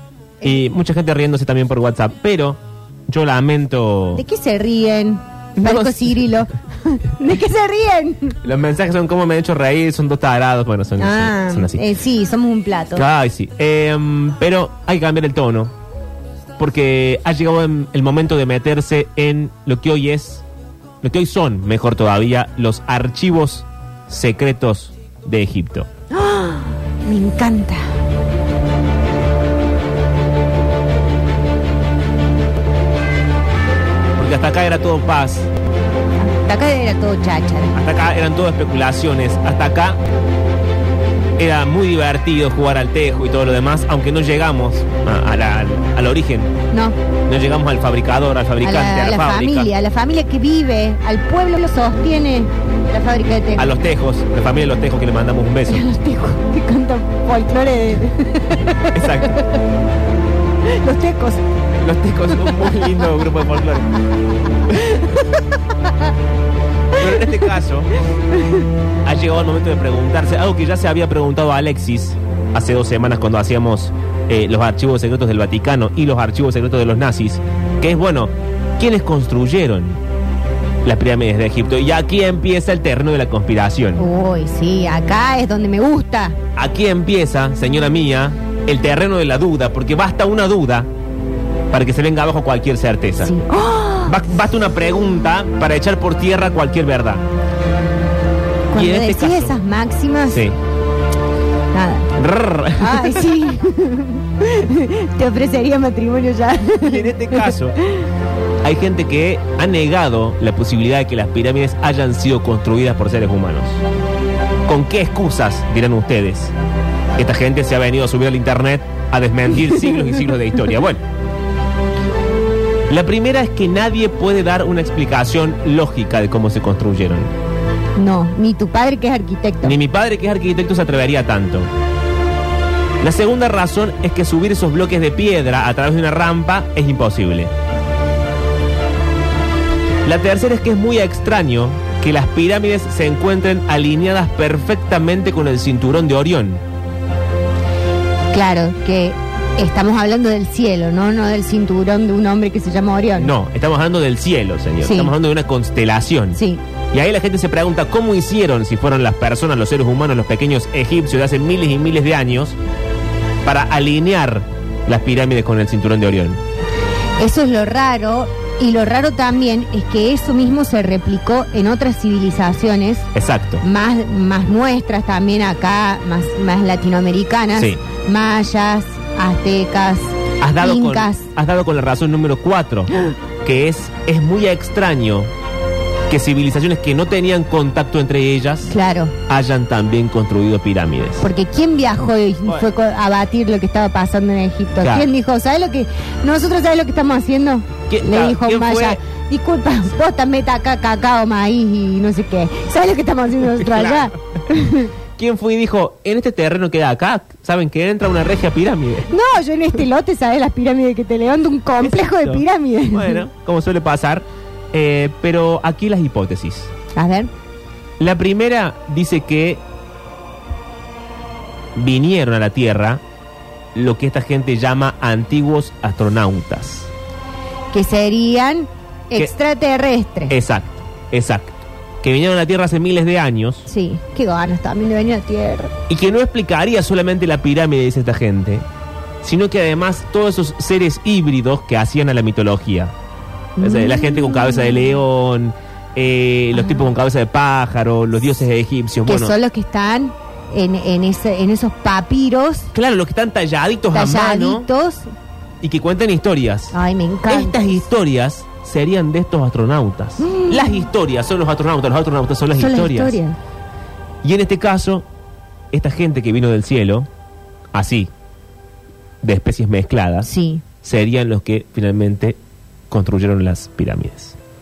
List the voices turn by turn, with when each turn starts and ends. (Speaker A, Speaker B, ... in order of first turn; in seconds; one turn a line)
Speaker A: 0.4-4.2
Speaker B: 4.2-8.4
Speaker A: 5.6-6.4
Speaker A: 8.4-11.8
Speaker B: 11.0-13.1
Speaker A: 12.9-15.7
Speaker A: 16.6-20.4
Speaker A: 21.0-25.9
Speaker B: 26.1-27.8
Speaker A: 34.2-35.5
Speaker B: 36.2-37.8
Speaker A: 37.7-40.0
Speaker A: 41.4-46.5
Speaker B: 46.7-47.0
Speaker A: 47.3-49.7
Speaker B: 48.6-53.7
Speaker A: 53.6-55.9
Speaker B: 55.7-59.4
Speaker A: 58.9-59.5
Speaker B: 60.7-61.4
Speaker A: 61.8-63.9
Speaker B: 64.8-65.2
Speaker A: 67.0-67.9
Speaker A: 69.0-80.0
Speaker A: 80.8-84.0
Speaker B: 84.0-86.4
Speaker A: 86.6-90.9
Speaker A: 91.7-93.3
Speaker B: 93.2-94.2
Speaker A: 94.0-97.2
Speaker B: 98.7-100.4
Speaker A: 98.7-99.6
Speaker A: 100.3-100.6
Speaker B: 101.7-102.1
Speaker A: 102.2-103.3
Speaker B: 102.8-107.5
Speaker A: 106.8-107.8
Speaker A: 108.6-113.8
Speaker A: 114.7-116.5
Speaker A: 117.2-121.0
Speaker A: 122.9-127.3
Speaker B: 128.0-129.8
Speaker A: 129.6-131.7
Speaker A: 133.0-137.5
Speaker A: 140.1-146.6
Speaker B: 148.3-153.3
Speaker A: 153.2-156.4
Speaker B: 154.8-155.1
Speaker B: 156.3-156.6
Speaker A: 156.9-162.6
Speaker A: 163.4-166.4
Speaker B: 167.2-173.1
Speaker A: 173.1-173.6
Speaker B: 173.6-181.3
Speaker A: 177.6-177.8
Speaker A: 180.4-182.9
Speaker A: 183.4-185.3
Speaker A: 186.1-188.7
Speaker B: 188.7-189.1
Speaker A: 189.3-191.2
Speaker B: 191.2-204.9
Speaker A: 194.8-195.1
Speaker A: 197.9-199.0
Speaker A: 203.6-204.1
Speaker A: 205.2-209.1
Speaker B: 209.1-213.2
Speaker A: 211.8-216.7
Speaker B: 217.0-217.3
Speaker A: 218.0-219.6
Speaker A: 221.8-223.0
Speaker A: 223.7-226.9
Speaker B: 227.7-230.3
Speaker A: 230.3-233.7
Speaker B: 233.7-235.7
Speaker A: 235.9-238.6
Speaker A: 239.2-242.9
Speaker B: 243.6-245.0
Speaker A: 243.6-249.3
Speaker B: 246.5-246.8
Speaker B: 249.1-252.7
Speaker A: 252.7-254.7
Speaker B: 253.9-255.1
Speaker A: 255.6-256.8
Speaker B: 256.7-257.8
Speaker A: 257.3-263.2
Speaker B: 260.2-260.9
Speaker B: 262.5-263.4
Speaker A: 264.2-265.0
Speaker A: 265.7-267.1
Speaker A: 267.7-268.1
Speaker A: 269.2-270.3
Speaker B: 270.2-270.6
Speaker A: 270.8-272.4
Speaker A: 272.9-274.4